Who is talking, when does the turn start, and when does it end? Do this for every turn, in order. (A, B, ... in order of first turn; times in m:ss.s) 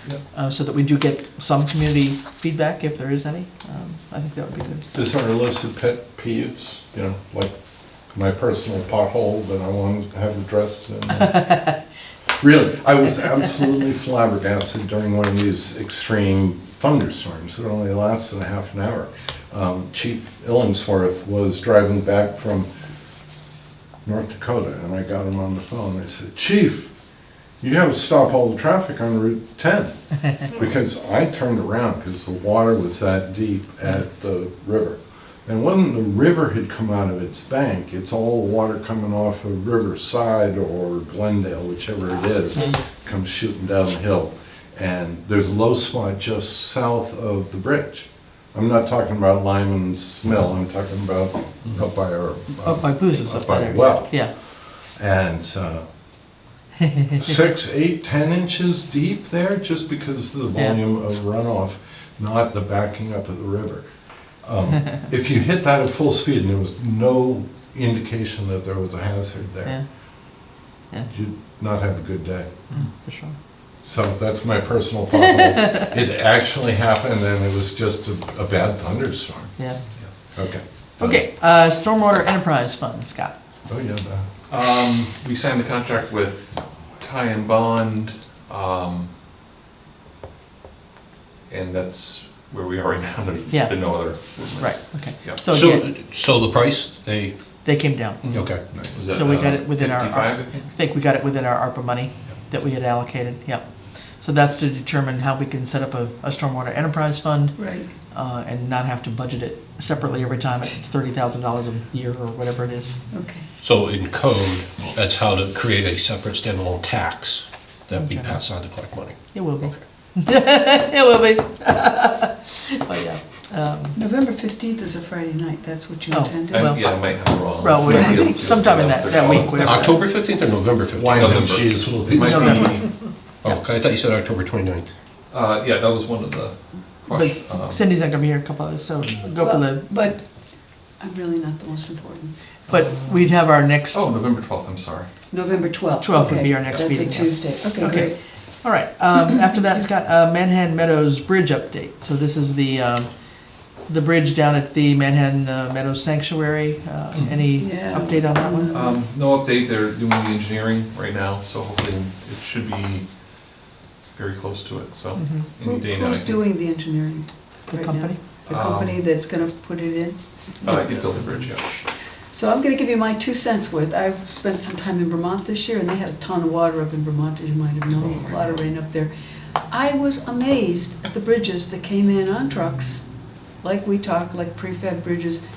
0:00.3-0:04.9 A
0:04.9-0:07.5 B
0:08.1-0:11.7 B
0:12.4-0:22.7 B
0:24.0-0:26.9 B
0:27.6-0:54.4 B
0:52.6-0:54.3 A
0:54.9-0:55.9 B
0:57.2-1:03.9 B
1:04.4-1:09.8 B
1:11.1-1:12.5 B
1:12.7-1:13.4 A
1:13.8-1:19.5 B
1:20.3-1:21.2 B
1:21.0-1:23.3 A
1:23.7-1:24.2 B
1:24.5-1:29.1 C
1:31.5-1:35.4 C
1:34.6-1:35.9 A
1:35.4-1:37.3 D
1:37.6-1:38.5 A
1:38.2-1:40.7 C
1:38.3-1:38.6 D
1:38.7-1:39.0 B
1:39.1-1:43.6 A
1:44.2-1:53.0 A
1:47.6-1:47.9 E
1:53.1-1:53.4 E
1:53.6-1:59.8 D
1:57.9-1:58.3 A
1:59.3-2:04.0 A
2:04.0-2:06.9 E
2:06.1-2:10.1 A
2:06.5-2:10.0 C
2:07.8-2:08.4 E
2:09.4-2:11.7 D
2:11.0-2:12.8 B
2:11.1-2:12.9 C
2:12.1-2:13.6 A
2:13.4-2:14.9 D
2:15.3-2:17.8 C
2:17.1-2:19.9 A
2:19.4-2:20.4 E
2:21.0-2:22.3 E
2:22.7-2:24.0 A
2:23.9-2:25.1 C
2:25.3-2:28.1 E
2:26.0-2:33.1 A
2:33.9-2:38.7 A
2:37.1-2:37.4 C
2:37.6-2:39.0 E
2:38.7-2:43.1 C
2:44.1-2:46.4 C
2:45.2-2:45.5 A
2:45.6-2:50.8 E
2:47.7-2:48.2 A
2:48.5-2:49.1 C
2:50.6-2:51.9 C
2:52.3-2:59.1 E
2:59.7-3:05.4 E